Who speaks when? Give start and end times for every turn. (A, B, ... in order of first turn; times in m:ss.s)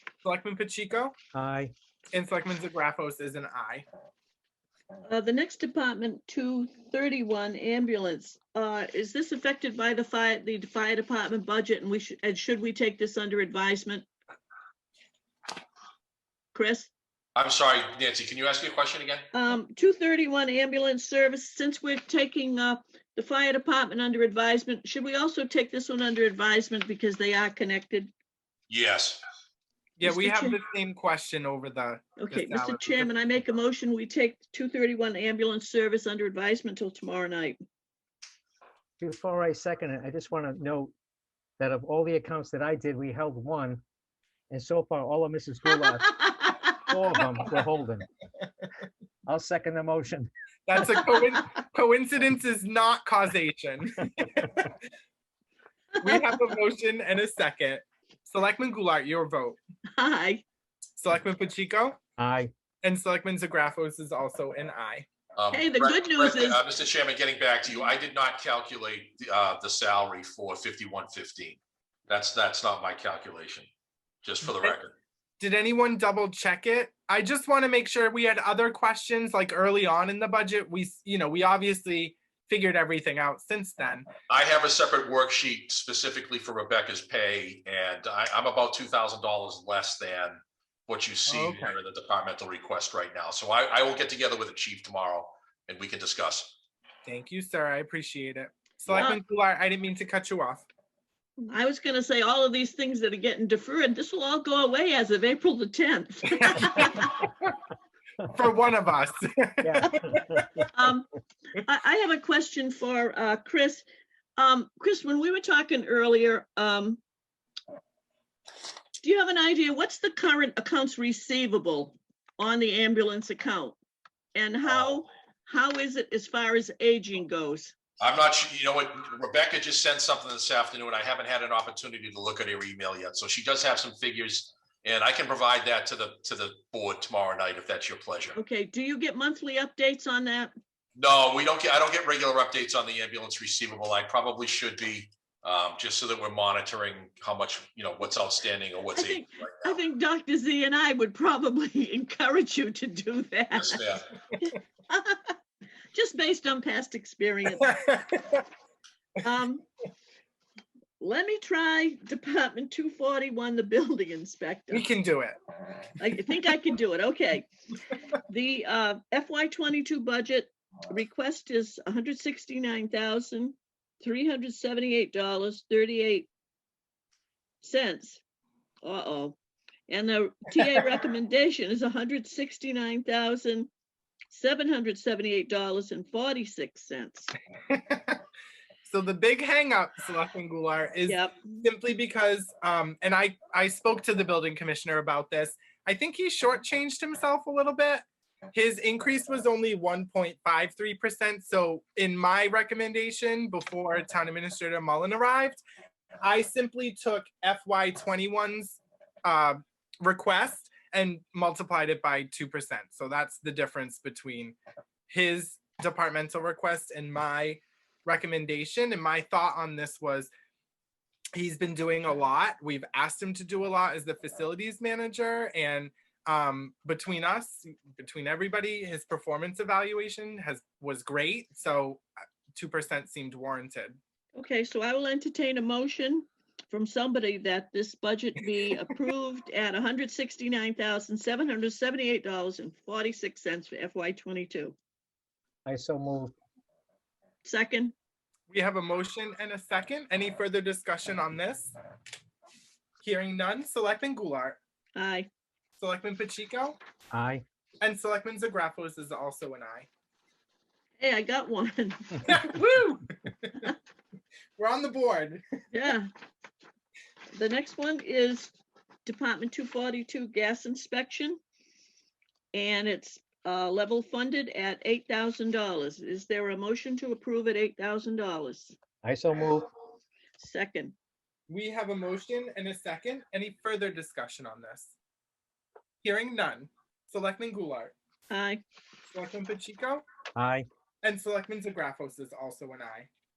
0:00.2-0:01.1 A
0:01.3-0:01.7 B
0:02.1-0:03.8 A
0:05.1-0:14.1 C
0:16.5-0:16.9 C
0:17.4-0:19.2 D
0:19.3-0:28.1 C
0:28.7-0:29.2 D
0:30.0-0:33.2 A
0:30.0-0:30.6 C
0:32.2-0:37.6 C
0:39.0-0:40.9 B
0:41.6-0:43.8 B
0:44.5-0:46.2 B
0:46.8-0:48.1 B
0:49.3-0:50.3 B
0:50.7-0:54.7 A
0:56.0-0:59.6 A
1:00.0-1:00.4 C
1:01.0-1:02.0 A
1:02.2-1:02.5 B
1:02.8-1:05.0 A
1:05.4-1:13.7 D
1:05.5-1:06.6 C
1:14.2-1:14.9 D
1:14.4-1:14.8 A
1:15.4-1:24.1 A
1:24.3-1:36.5 D
1:31.3-1:31.7 A
1:37.0-1:40.6 A
1:38.9-1:39.2 C
1:41.4-1:47.2 C
1:46.5-1:47.4 A
1:48.3-1:50.2 A
1:49.6-1:50.7 B
1:50.7-1:53.8 C
1:54.4-1:57.0 C
1:59.0-2:03.8 C
2:04.3-2:07.7 C
2:08.0-2:18.4 D
2:18.4-2:20.5 C
2:21.0-2:29.8 D
2:28.9-2:33.8 C
2:33.5-2:34.0 D
2:34.4-2:35.3 C
2:35.9-2:37.7 C
2:37.6-2:38.4 A
2:39.2-2:39.6 C
2:41.0-2:44.9 C
2:44.7-2:45.4 A
2:46.0-2:47.4 C
2:48.2-2:56.3 C
2:57.6-2:58.2 C
2:58.8-2:59.4 C
2:59.9-3:03.7 C
3:04.3-3:07.3 C
3:07.7-3:08.2 A
3:08.8-3:25.6 A
3:11.1-3:11.6 C
3:26.2-3:34.6 A
3:35.1-3:40.3 A
3:41.3-3:54.0 A
3:54.3-4:04.7 C
4:05.6-4:06.3 B
4:07.4-4:07.9 C
4:08.5-4:11.7 A
4:13.0-4:14.6 A
4:15.0-4:15.3 C
4:15.8-4:16.8 A
4:17.1-4:17.4 B
4:17.8-4:19.9 A
4:21.0-4:22.4 C
4:22.2-4:23.7 A
4:24.6-4:25.4 A
4:25.7-4:26.1 C
4:27.3-4:28.5 C
4:29.0-4:31.4 C
4:32.5-4:38.7 C
4:39.0-4:39.7 B
4:40.4-4:40.9 C
4:41.5-4:44.9 A
4:46.0-4:47.9 A
4:48.3-4:48.6 C
4:49.1-4:50.0 A
4:50.4-4:50.7 B
4:51.0-4:53.1 A